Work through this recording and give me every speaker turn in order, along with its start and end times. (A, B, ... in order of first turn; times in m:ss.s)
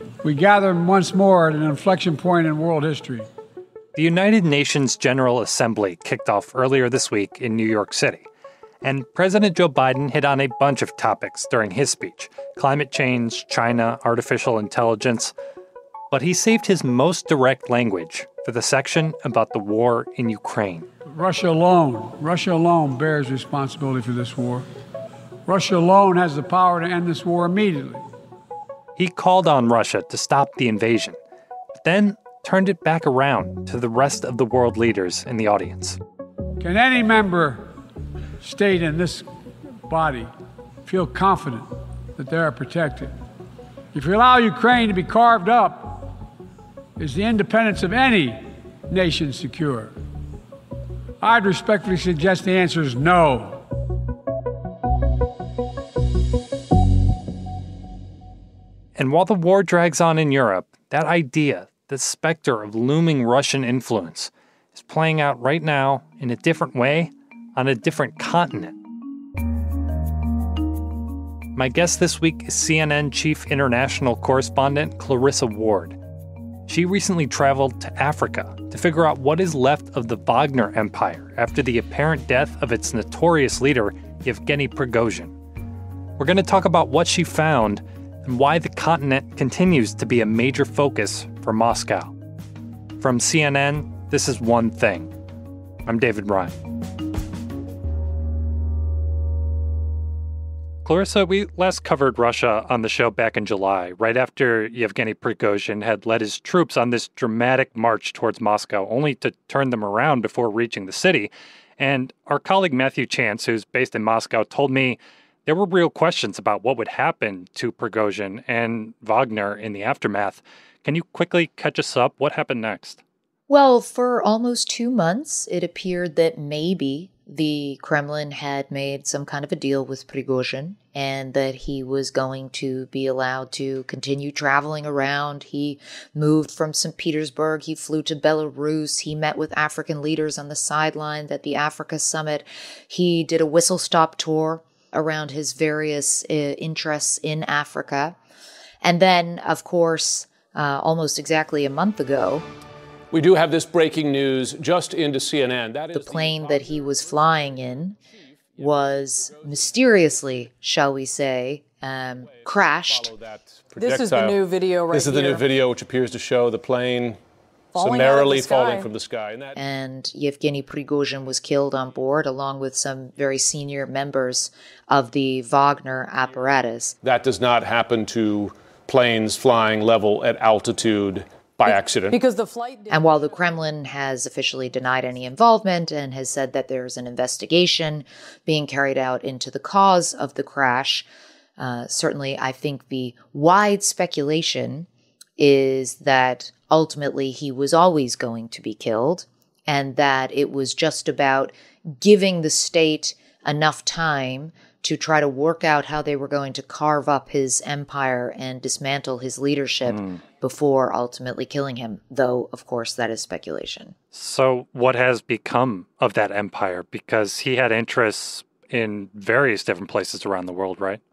0:00.2-0:03.3 A
0:04.0-0:08.3 B
0:08.8-0:15.3 B
0:16.1-0:20.9 B
0:21.1-0:24.7 A
0:25.5-0:28.0 A
0:29.0-0:31.2 B
0:31.8-0:36.0 B
0:36.6-0:37.6 A
0:38.4-0:39.3 A
0:39.9-0:40.3 A
0:40.9-0:43.1 A
0:43.9-0:46.1 A
0:47.0-0:49.9 A
0:51.2-0:53.6 A
0:59.0-1:08.8 B
1:11.5-1:16.0 B
1:16.7-1:25.3 B
1:26.2-1:32.1 B
1:33.0-1:35.1 B
1:35.9-1:36.6 B
1:40.8-2:03.0 B
2:03.5-2:28.2 C
2:28.8-2:32.4 C
2:33.1-2:37.4 D
2:35.9-2:38.0 C
2:38.6-2:39.6 D
2:38.6-2:43.1 C
2:42.4-2:47.2 D
2:43.8-2:45.4 E
2:47.8-2:48.9 E
2:47.8-2:49.6 D
2:49.6-2:57.0 C
2:57.0-3:02.2 D
3:01.7-3:03.1 E
3:02.9-3:11.1 C
3:11.6-3:33.9 C
3:34.1-3:41.0 B